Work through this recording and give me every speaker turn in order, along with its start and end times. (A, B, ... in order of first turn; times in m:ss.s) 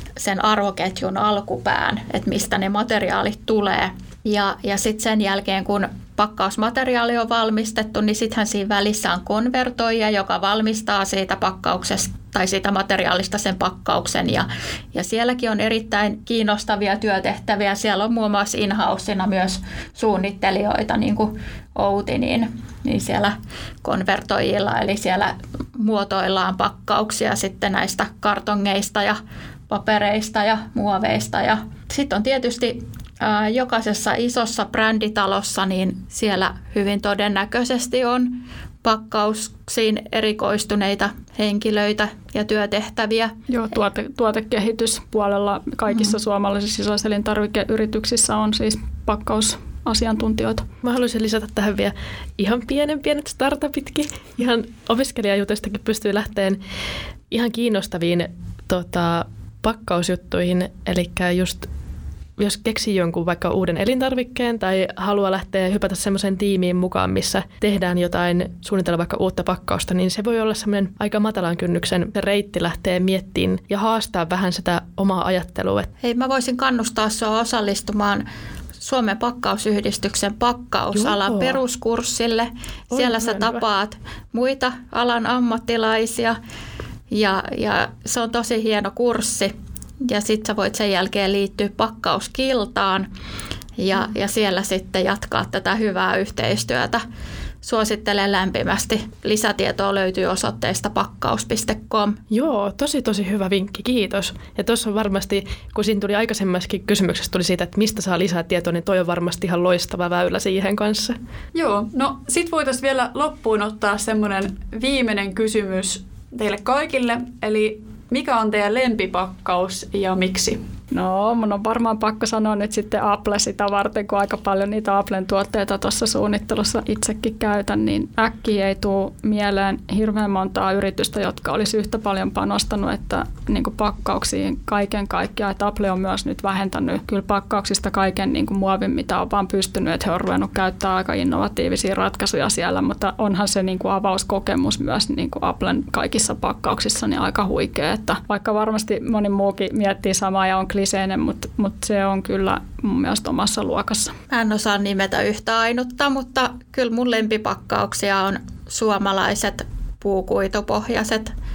0:00.2-0:43.3 A
0:43.5-0:50.7 B
0:50.8-0:56.6 C
0:57.3-1:01.7 C
1:02.4-1:15.9 C
1:16.0-1:18.2 A
1:18.8-1:26.4 A
1:20.9-1:21.6 C
1:22.9-1:23.6 C
1:27.1-1:33.1 A
1:33.8-1:37.0 A
1:37.6-1:42.2 A
1:42.3-1:51.2 C
1:51.5-2:00.6 D
2:00.9-2:34.1 B
2:34.3-2:41.3 A